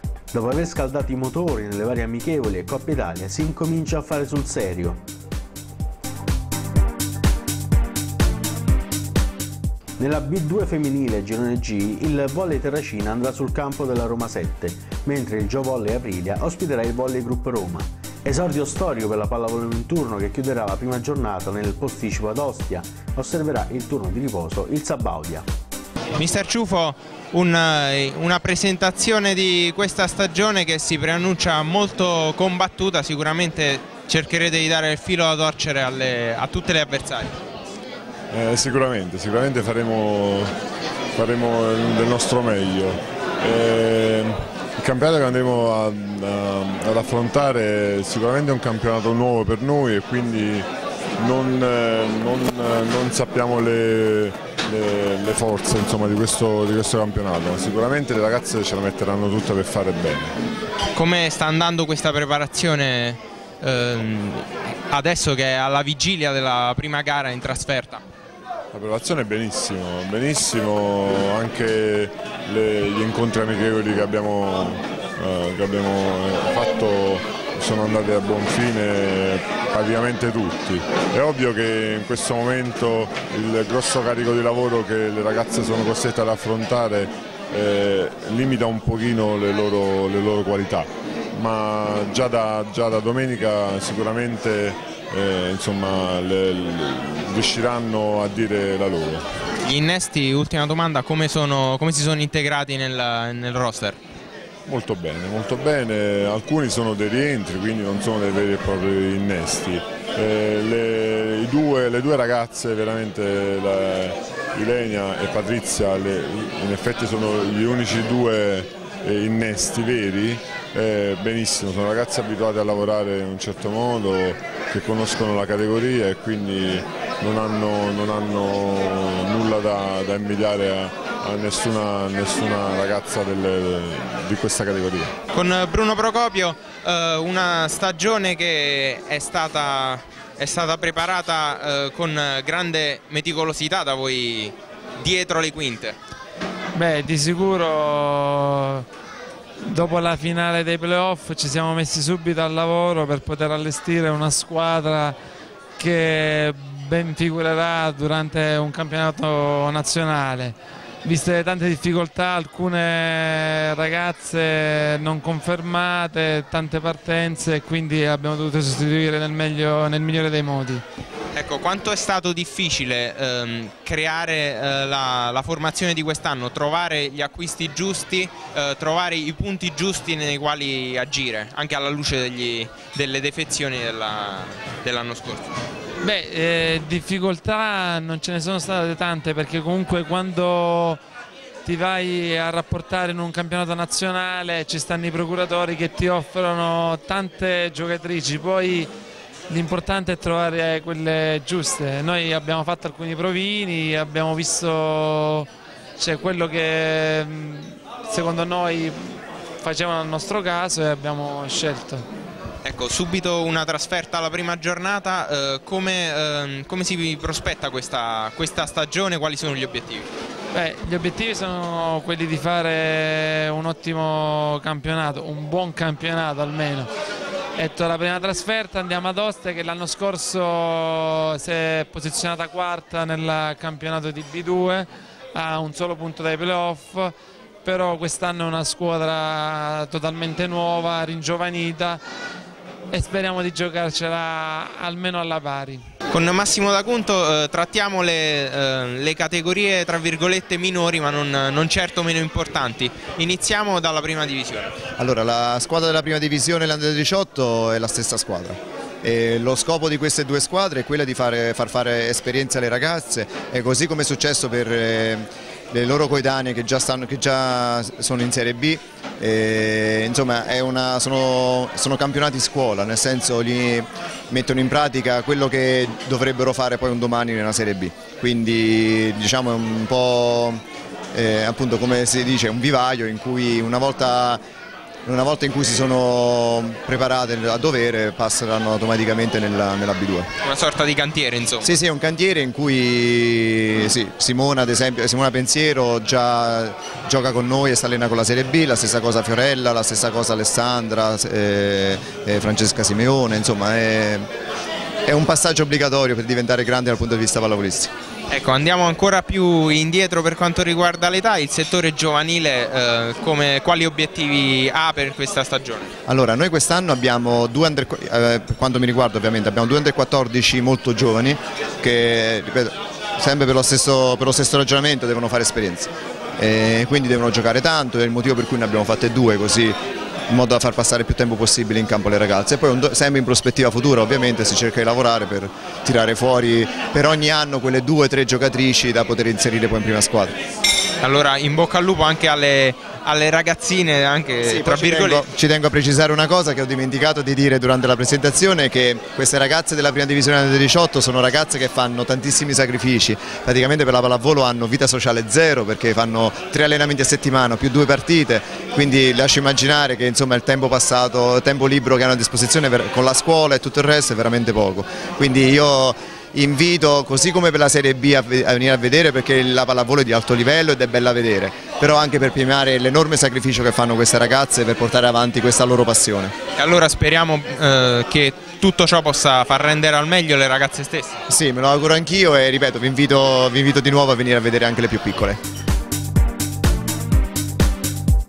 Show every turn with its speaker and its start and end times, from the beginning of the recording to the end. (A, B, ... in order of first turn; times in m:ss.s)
0:00.3-0:05.0 A
0:10.0-0:25.5 A
0:26.2-0:37.4 B
0:38.3-0:40.5 C
0:41.2-0:50.7 C
0:51.2-1:00.4 C
1:01.0-1:08.0 B
1:08.7-1:39.3 C
1:39.6-1:44.0 B
1:44.7-2:15.1 C
2:15.3-2:26.0 B
2:26.8-2:28.8 D
2:29.6-2:35.2 D
2:35.8-2:50.8 D
2:51.3-3:05.6 B
3:06.0-3:11.0 D
3:11.6-3:18.9 D
3:19.5-3:32.0 D
3:32.6-3:40.1 B
3:40.5-3:46.9 D
3:47.6-4:02.0 D
4:02.9-4:05.8 D
4:06.1-4:14.8 B
4:15.0-4:40.6 E
4:41.1-4:44.4 E
4:45.1-4:50.3 E
4:50.4-4:51.7 B
4:51.6-5:04.3 E
5:05.0-5:07.9 E
5:08.3-5:15.9 B
5:16.1-5:29.8 E
5:30.3-5:40.4 E
5:41.0-5:45.2 B
5:44.4-6:16.3 E
6:16.6-6:21.2 B
6:21.3-6:25.4 E